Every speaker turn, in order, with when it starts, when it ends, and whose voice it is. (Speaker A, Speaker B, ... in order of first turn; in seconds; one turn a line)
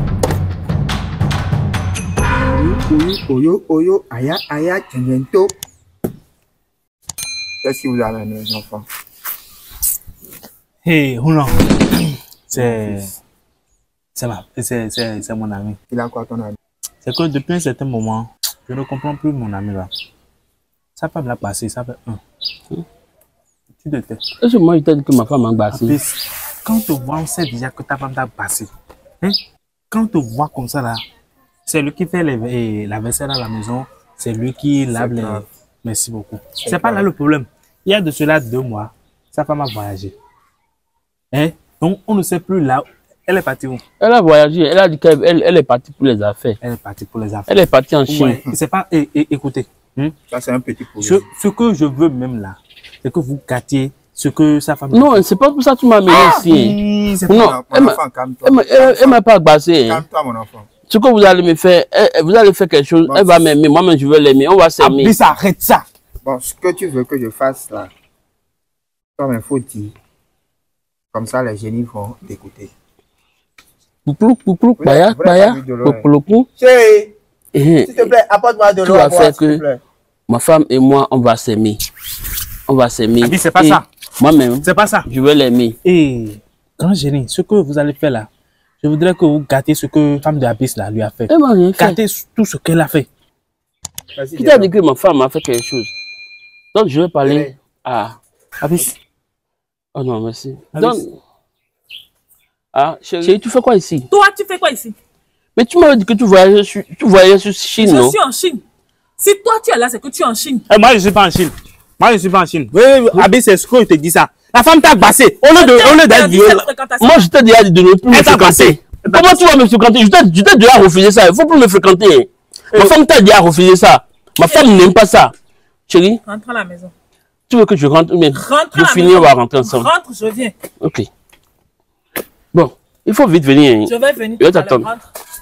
Speaker A: 2.5-5.5
Speaker A: 7.6-8.8
Speaker B: 10.8-11.6
Speaker B: 12.5-13.1
Speaker A: 12.5-13.1
Speaker B: 14.2-15.8
Speaker A: 15.9-16.6
Speaker B: 17.0-19.9
Speaker B: 21.0-22.2
Speaker B: 23.7-24.2
Speaker C: 24.4-26.0
Speaker B: 25.7-28.7
Speaker B: 29.9-31.0
Speaker B: 31.6-40.1
Speaker A: 34.9-35.5
Speaker A: 36.6-37.1
Speaker B: 41.3-43.8
Speaker C: 44.0-46.6
Speaker B: 46.6-47.5
Speaker C: 47.5-48.4
Speaker B: 48.1-50.2
Speaker A: 50.3-51.3
Speaker B: 51.0-55.2
Speaker C: 54.9-56.8
Speaker B: 56.1-57.4
Speaker A: 57.3-59.2
Speaker C: 57.3-60.0
Speaker A: 59.9-60.7
Speaker C: 60.9-65.1
Speaker A: 63.1-63.4
Speaker B: 64.8-65.8
Speaker A: 66.2-67.9
Speaker A: 69.2-70.0
Speaker A: 71.1-72.7
Speaker C: 74.1-76.5
Speaker A: 74.8-76.1
Speaker B: 76.6-77.1
Speaker C: 77.5-78.1
Speaker A: 77.9-78.2
Speaker B: 78.0-79.0
Speaker A: 78.8-79.8
Speaker C: 78.8-79.6
Speaker C: 80.3-81.8
Speaker C: 82.7-85.8
Speaker B: 83.2-83.8
Speaker B: 84.6-85.1
Speaker B: 85.8-88.3
Speaker B: 88.8-93.1
Speaker C: 91.3-92.0
Speaker A: 94.2-94.7
Speaker C: 94.4-95.9
Speaker C: 96.7-98.2
Speaker A: 97.2-97.5
Speaker B: 98.6-99.0
Speaker C: 100.0-101.1
Speaker B: 100.7-101.0
Speaker C: 102.7-104.1
Speaker D: 104.1-105.0
Speaker C: 105.6-108.2
Speaker D: 107.8-108.6
Speaker D: 109.2-110.7
Speaker B: 110.7-116.6
Speaker D: 115.5-117.3
Speaker C: 116.3-125.3
Speaker B: 118.1-119.4
Speaker D: 124.4-124.9
Speaker C: 125.9-126.2
Speaker D: 126.2-126.9
Speaker C: 127.5-129.9
Speaker D: 128.3-130.5
Speaker C: 130.8-131.1
Speaker C: 132.5-134.9
Speaker D: 133.9-135.0